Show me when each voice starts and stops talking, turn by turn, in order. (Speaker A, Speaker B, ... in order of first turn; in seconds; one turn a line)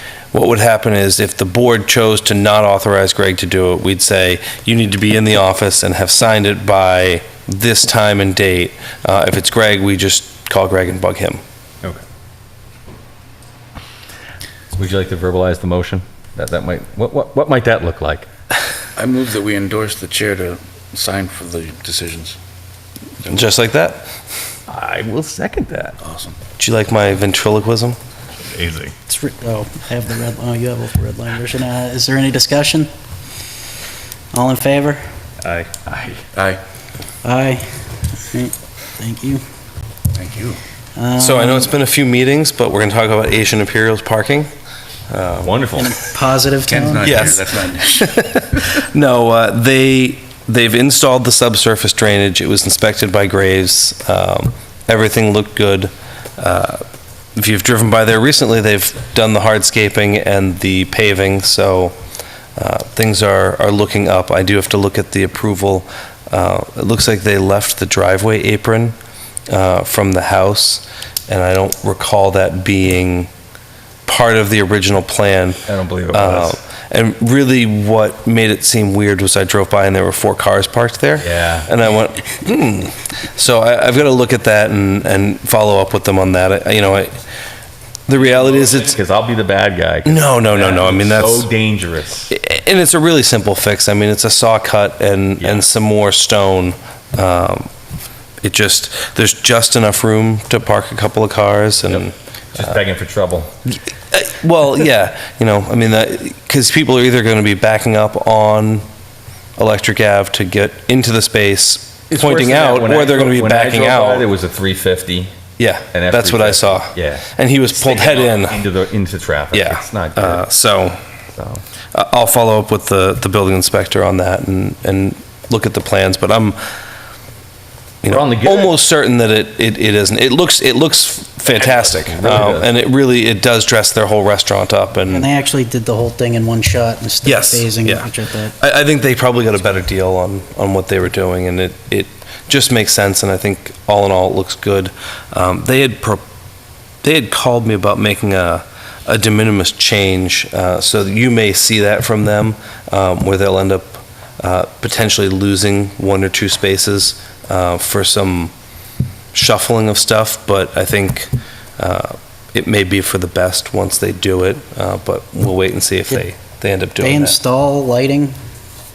Speaker A: 0.3-11.4
Speaker B: 14.7-18.3
Speaker C: 19.0-22.4
Speaker A: 23.2-24.1
Speaker B: 24.7-26.0
Speaker C: 26.0-26.4
Speaker A: 26.6-28.0
Speaker B: 28.5-28.9
Speaker D: 29.1-32.9
Speaker D: 34.3-35.0
Speaker B: 35.4-36.3
Speaker C: 36.4-36.6
Speaker D: 37.2-37.6
Speaker D: 38.2-39.4
Speaker C: 40.1-40.6
Speaker D: 41.0-41.7
Speaker A: 41.2-44.5
Speaker A: 45.1-45.6
Speaker B: 45.4-46.0
Speaker D: 45.8-47.2
Speaker C: 46.7-48.6
Speaker A: 47.0-56.8
Speaker A: 57.4-62.0
Speaker A: 62.6-69.0
Speaker A: 69.5-73.3
Speaker A: 74.1-87.1
Speaker B: 75.7-76.6
Speaker B: 81.2-81.7
Speaker A: 88.1-89.0
Speaker B: 88.3-92.3
Speaker A: 90.1-91.5
Speaker A: 92.3-97.7
Speaker B: 95.4-95.7
Speaker A: 98.4-102.2
Speaker B: 102.5-103.5
Speaker A: 104.1-108.8
Speaker A: 109.6-114.3
Speaker B: 112.1-115.3
Speaker A: 115.6-118.6
Speaker B: 115.9-120.5
Speaker A: 119.5-121.0
Speaker B: 121.3-121.6
Speaker A: 121.9-126.6
Speaker A: 128.0-135.3
Speaker B: 128.1-128.7
Speaker B: 131.5-132.7
Speaker D: 135.1-138.6
Speaker A: 137.2-146.2
Speaker A: 147.0-158.5
Speaker A: 159.3-167.4
Speaker D: 167.0-168.4